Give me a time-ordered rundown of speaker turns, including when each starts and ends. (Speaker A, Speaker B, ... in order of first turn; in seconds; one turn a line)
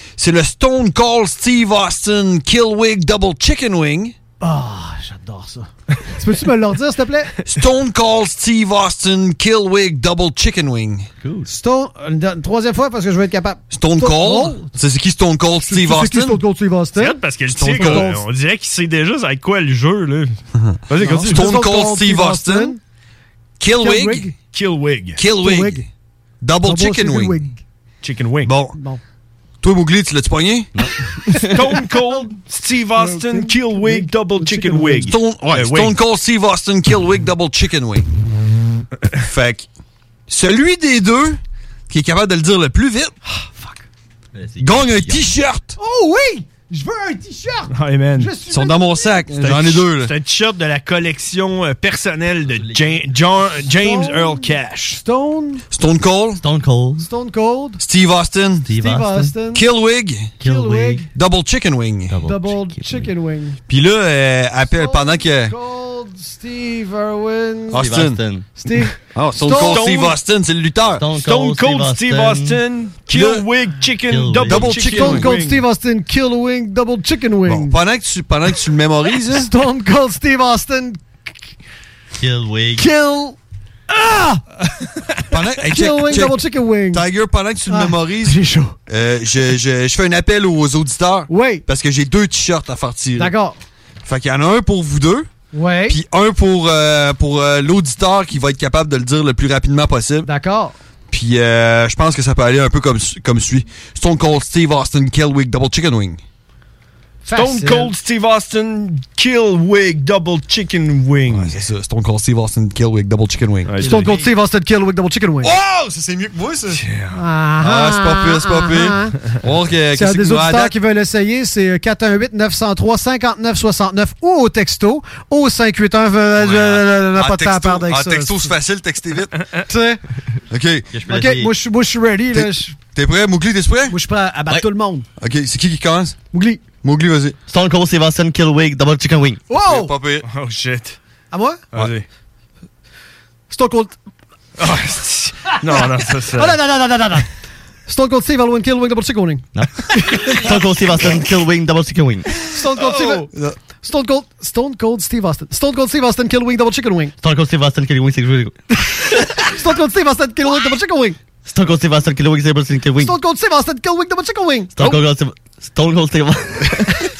Speaker A: 0.2-4.1
Speaker B: 4.4-7.3
Speaker A: 7.4-11.1
Speaker B: 11.4-14.7
Speaker A: 13.7-16.4
Speaker B: 15.7-18.2
Speaker C: 16.9-20.4
Speaker A: 17.5-18.1
Speaker A: 20.5-22.8
Speaker C: 20.9-21.5
Speaker B: 21.0-22.8
Speaker A: 23.6-24.3
Speaker B: 23.7-24.3
Speaker C: 24.5-25.2
Speaker A: 25.2-25.9
Speaker B: 25.3-25.8
Speaker A: 26.4-27.4
Speaker B: 26.6-27.6
Speaker C: 28.0-28.5
Speaker A: 28.4-28.8
Speaker B: 28.7-29.0
Speaker A: 29.6-30.7
Speaker D: 30.8-31.5
Speaker C: 31.5-36.0
Speaker B: 31.8-32.3
Speaker B: 33.0-35.1
Speaker A: 35.0-38.1
Speaker A: 39.1-39.7
Speaker A: 40.3-43.1
Speaker B: 43.3-43.8
Speaker D: 44.3-45.3
Speaker A: 44.6-45.7
Speaker B: 45.8-49.5
Speaker C: 47.7-48.3
Speaker A: 48.5-50.1
Speaker C: 49.3-55.0
Speaker D: 52.5-53.0
Speaker B: 53.7-55.6
Speaker A: 55.7-56.4
Speaker D: 56.4-57.1
Speaker B: 57.0-57.8
Speaker A: 57.8-58.7
Speaker D: 58.7-59.3
Speaker B: 58.7-59.6
Speaker A: 59.5-60.4
Speaker B: 60.4-61.0
Speaker D: 60.4-61.1
Speaker A: 61.1-62.2
Speaker D: 62.1-63.1
Speaker B: 62.2-63.6
Speaker A: 63.7-65.5
Speaker B: 64.7-67.9
Speaker A: 67.7-68.2
Speaker D: 67.8-68.5
Speaker B: 68.5-70.0
Speaker A: 69.1-71.0
Speaker C: 69.6-70.2
Speaker D: 70.9-72.6
Speaker C: 71.2-75.6
Speaker A: 73.1-73.4
Speaker D: 74.1-74.8
Speaker A: 74.5-75.3
Speaker B: 74.8-77.8
Speaker A: 77.5-79.5
Speaker B: 79.3-81.0
Speaker D: 82.2-82.9
Speaker B: 82.8-83.3
Speaker B: 83.9-84.4
Speaker A: 85.3-86.4
Speaker B: 85.6-87.1
Speaker A: 86.9-93.3
Speaker B: 87.7-88.7
Speaker B: 91.3-91.6
Speaker B: 93.2-93.6
Speaker A: 94.0-95.3
Speaker B: 95.5-96.0
Speaker A: 95.9-100.3
Speaker B: 100.2-100.7
Speaker A: 101.1-106.2
Speaker B: 107.2-107.9
Speaker C: 107.3-111.5
Speaker A: 111.3-114.2
Speaker C: 113.6-114.1
Speaker B: 113.8-115.6
Speaker A: 115.4-116.8
Speaker C: 116.7-117.2
Speaker B: 117.1-119.2
Speaker A: 117.6-120.8
Speaker B: 119.9-128.5
Speaker A: 126.4-129.5
Speaker B: 129.7-130.0
Speaker A: 130.5-130.9
Speaker D: 130.9-131.5
Speaker B: 131.0-132.8
Speaker A: 132.3-133.9
Speaker B: 133.9-135.1
Speaker A: 135.2-136.2
Speaker B: 136.3-136.6
Speaker A: 136.8-137.4
Speaker D: 137.5-139.4
Speaker B: 139.5-140.0
Speaker A: 139.5-140.2
Speaker C: 140.2-141.0
Speaker B: 141.3-141.7
Speaker C: 141.7-142.1
Speaker B: 143.5-143.9
Speaker C: 144.6-146.6
Speaker B: 145.7-147.3
Speaker B: 147.9-149.4
Speaker D: 149.5-152.3
Speaker B: 150.2-150.6
Speaker B: 152.4-153.3
Speaker A: 152.8-153.6
Speaker B: 153.8-157.1
Speaker D: 157.2-158.6
Speaker B: 159.4-161.2
Speaker D: 161.4-163.2
Speaker B: 163.0-165.0
Speaker D: 164.7-166.9